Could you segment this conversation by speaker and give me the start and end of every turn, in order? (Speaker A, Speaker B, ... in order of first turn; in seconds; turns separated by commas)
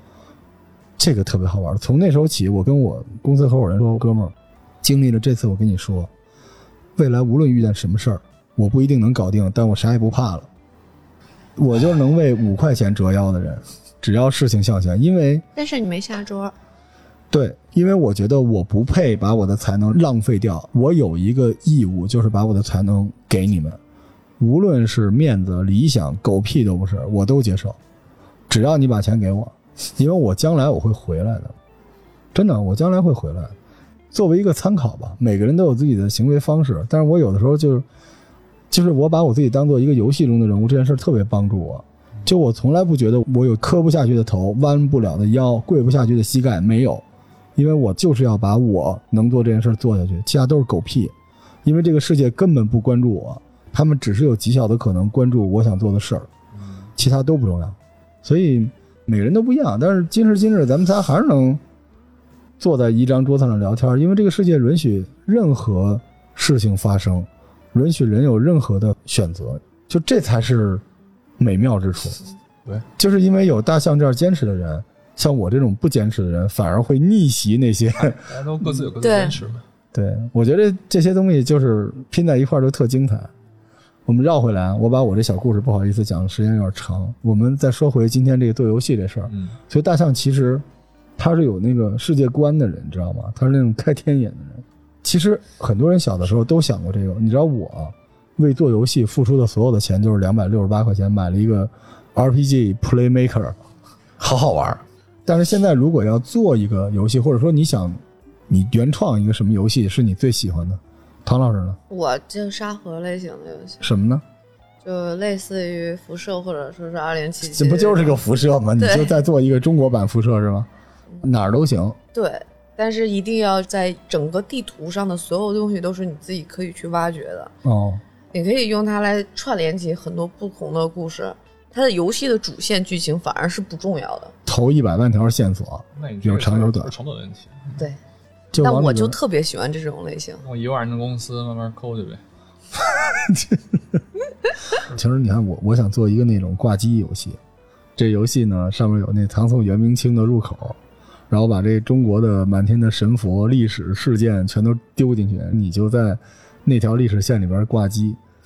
Speaker A: 1.0-6.1, Speaker A: 7.0-10.5, Speaker A: 11.6-15.4, Speaker B: 15.6-16.5, Speaker A: 17.3-23.8, Speaker A: 24.4-27.8, Speaker A: 28.5-31.5, Speaker A: 32.3-33.5, Speaker A: 34.1-37.9, Speaker A: 38.7-47.0, Speaker A: 47.5-51.1, Speaker A: 51.6-56.3, Speaker C: 56.5-56.9, Speaker A: 57.0-61.6, Speaker A: 62.6-70.8, Speaker A: 71.4-72.2, Speaker A: 73.0-78.9, Speaker C: 77.9-79.6, Speaker B: 79.0-79.4, Speaker A: 79.9-83.3, Speaker A: 84.0-90.6, Speaker C: 89.3-89.6, Speaker A: 91.2-103.6, Speaker A: 104.2-111.8, Speaker B: 111.9-113.8, Speaker A: 113.8-114.2, Speaker B: 114.8-118.1, Speaker A: 117.4-120.7, Speaker B: 118.8-119.2, Speaker A: 121.2-122.0, Speaker B: 122.1-127.5, Speaker A: 127.6-128.0, Speaker B: 128.3-134.3, Speaker A: 134.4-136.9, Speaker C: 135.9-137.8, Speaker A: 138.5-139.2, Speaker B: 138.6-140.4, Speaker C: 140.4-142.2, Speaker A: 142.8-144.0, Speaker A: 144.9-147.4, Speaker A: 147.9-150.8, Speaker A: 151.3-158.2